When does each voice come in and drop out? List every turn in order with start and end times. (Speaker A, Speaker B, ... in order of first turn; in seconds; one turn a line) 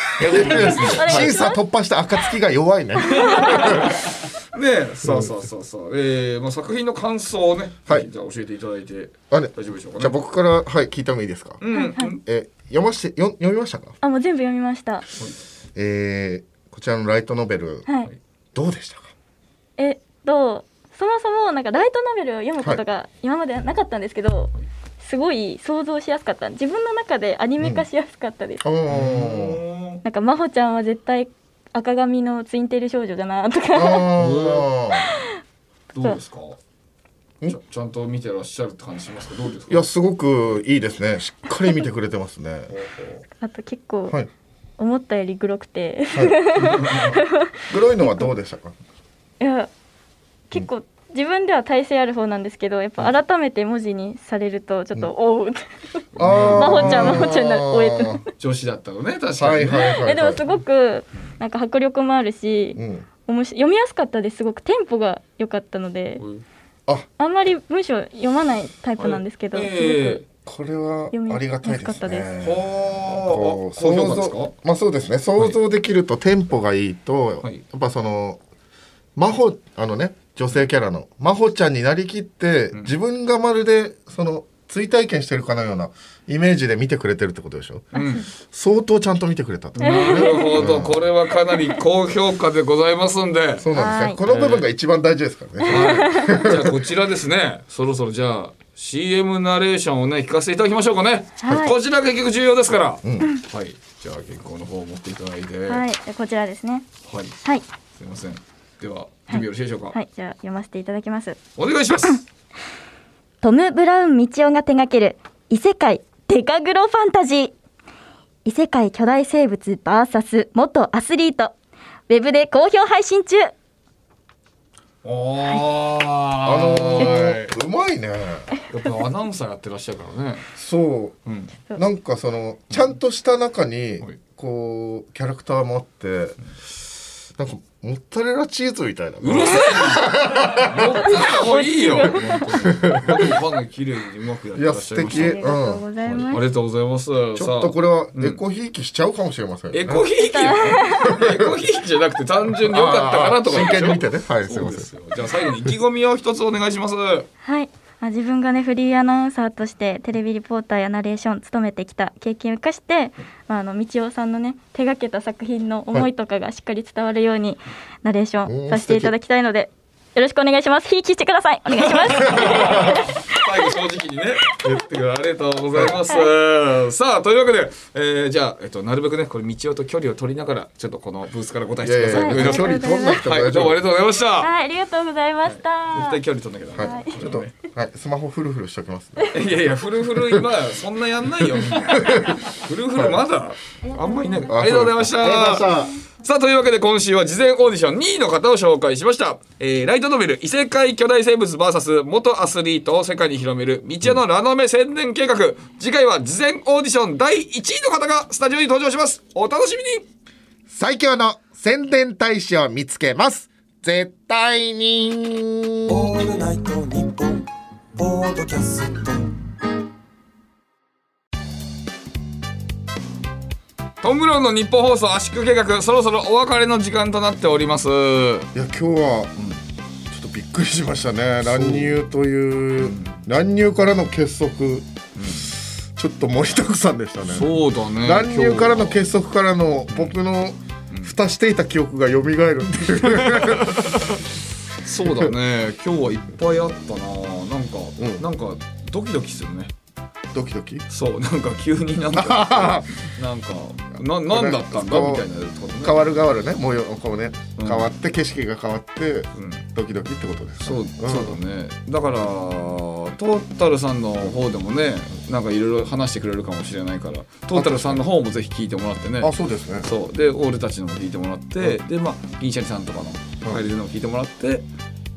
Speaker A: 0.2-1.4
Speaker B: 0.2-3.9
Speaker C: 0.8-1.6
Speaker A: 3.0-10.2
Speaker B: 9.3-11.6
Speaker A: 11.6-12.2
Speaker C: 11.7-12.1
Speaker B: 12.2-13.9
Speaker C: 14.0-15.1
Speaker B: 15.8-17.9
Speaker B: 18.5-19.1
Speaker C: 19.8-28.6
Speaker B: 27.6-27.8
Speaker B: 28.6-29.6
Speaker A: 28.9-30.0
Speaker C: 30.0-34.1
Speaker B: 33.7-35.0
Speaker A: 34.1-34.6
Speaker A: 35.9-36.6
Speaker A: 37.5-39.9
Speaker B: 39.7-42.7
Speaker A: 42.7-43.2
Speaker C: 43.4-44.1
Speaker C: 44.8-47.5
Speaker A: 46.6-47.2
Speaker B: 47.7-48.7
Speaker C: 49.4-49.7
Speaker C: 50.5-55.6
Speaker A: 56.2-57.3
Speaker B: 56.2-58.2
Speaker C: 56.3-58.2
Speaker A: 58.4-60.0
Speaker B: 59.4-60.4
Speaker C: 59.8-66.2
Speaker B: 62.8-63.0
Speaker A: 66.2-66.4
Speaker C: 67.2-70.2
Speaker A: 69.0-70.2
Speaker B: 70.5-78.4
Speaker C: 71.1-72.3
Speaker A: 72.4-74.5
Speaker B: 79.2-87.8
Speaker A: 87.9-88.2
Speaker B: 88.5-90.0
Speaker A: 89.8-93.7
Speaker C: 89.8-90.8
Speaker B: 90.5-91.0
Speaker B: 93.6-96.7
Speaker C: 93.7-94.2
Speaker A: 94.2-94.7
Speaker C: 95.7-96.4
Speaker A: 95.7-105.8
Speaker C: 101.4-101.7
Speaker B: 103.0-103.3
Speaker C: 105.7-106.8
Speaker A: 107.1-107.3
Speaker A: 108.0-110.0
Speaker C: 109.3-111.4
Speaker A: 111.6-112.2
Speaker C: 113.4-117.5
Speaker C: 118.4-121.5
Speaker C: 122.1-123.5
Speaker A: 125.0-127.5
Speaker B: 126.4-128.5
Speaker A: 128.7-130.4
Speaker B: 130.6-131.2
Speaker A: 131.3-131.5
Speaker B: 131.8-136.4
Speaker B: 137.4-141.1
Speaker A: 139.2-145.5
Speaker C: 141.5-142.4
Speaker B: 142.5-143.3
Speaker B: 144.6-146.2
Speaker C: 145.0-146.4
Speaker A: 146.0-148.4
Speaker B: 147.4-150.1
Speaker A: 149.7-157.3
Speaker C: 150.3-151.2
Speaker B: 151.1-151.5
Speaker B: 152.7-154.9
Speaker C: 157.4-172.9
Speaker B: 168.5-169.1
Speaker A: 171.7-184.5
Speaker B: 181.8-183.8
Speaker C: 182.1-183.2
Speaker C: 184.4-186.2
Speaker A: 185.4-187.5
Speaker B: 186.8-189.3
Speaker C: 186.8-187.1
Speaker A: 189.3-210.1
Speaker B: 191.7-192.3
Speaker C: 193.8-194.5
Speaker B: 194.5-195.9
Speaker B: 210.7-216.1
Speaker A: 215.9-219.4
Speaker A: 224.0-228.5
Speaker B: 228.5-229.3
Speaker B: 230.1-237.5
Speaker A: 231.4-231.9
Speaker A: 232.8-233.2
Speaker A: 235.2-235.5
Speaker A: 237.2-239.0
Speaker B: 238.0-244.0
Speaker A: 243.2-244.0
Speaker A: 244.8-249.7
Speaker B: 248.0-248.2
Speaker B: 250.3-250.8
Speaker A: 250.9-256.1
Speaker B: 252.1-252.9
Speaker B: 254.2-255.2
Speaker B: 255.8-261.4
Speaker A: 257.6-257.9
Speaker A: 259.3-259.6
Speaker A: 260.6-274.6
Speaker B: 267.5-268.0
Speaker B: 269.2-269.9